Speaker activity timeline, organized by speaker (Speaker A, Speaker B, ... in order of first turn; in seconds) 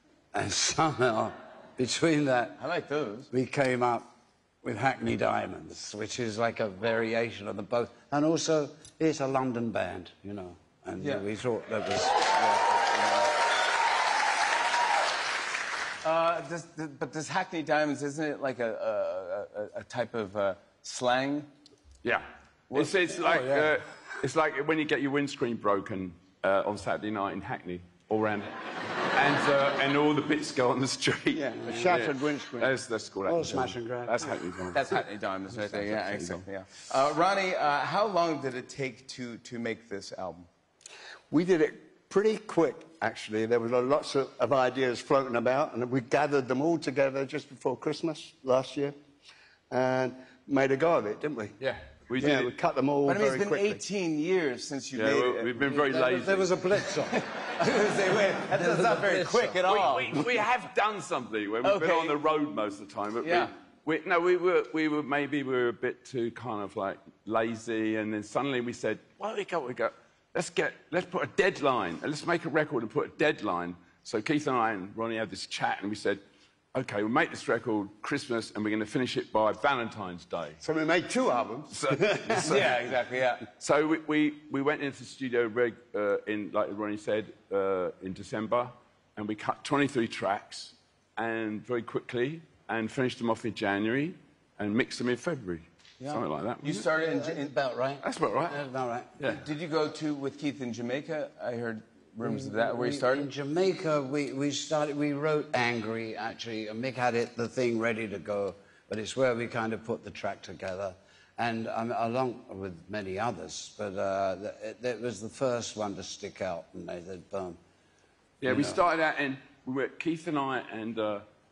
Speaker A: 0.3-2.6, 3.3-4.1, 4.6-12.3, 23.1-23.7, 31.6-32.0, 33.3-34.8, 55.6-57.2, 58.5-59.6, 97.0-99.3, 102.2-117.6, 118.5-118.8
Speaker B: 2.6-3.3, 12.4-13.2, 16.0-21.5, 22.7-23.0, 34.7-40.5, 53.1-55.7, 57.1-60.2, 61.6-62.2, 63.2-63.5, 82.4-83.4, 96.6-97.5, 99.3-103.3
Speaker C: 22.0-28.5, 29.1-36.4, 51.6-52.5, 54.9-56.6, 59.6-76.2, 76.7-80.6, 81.7-82.9, 83.6-96.8, 98.0-98.6, 118.4-121.3
Speaker D: 31.4-32.7, 41.3-49.0, 49.7-51.5, 52.1-53.8, 80.6-82.4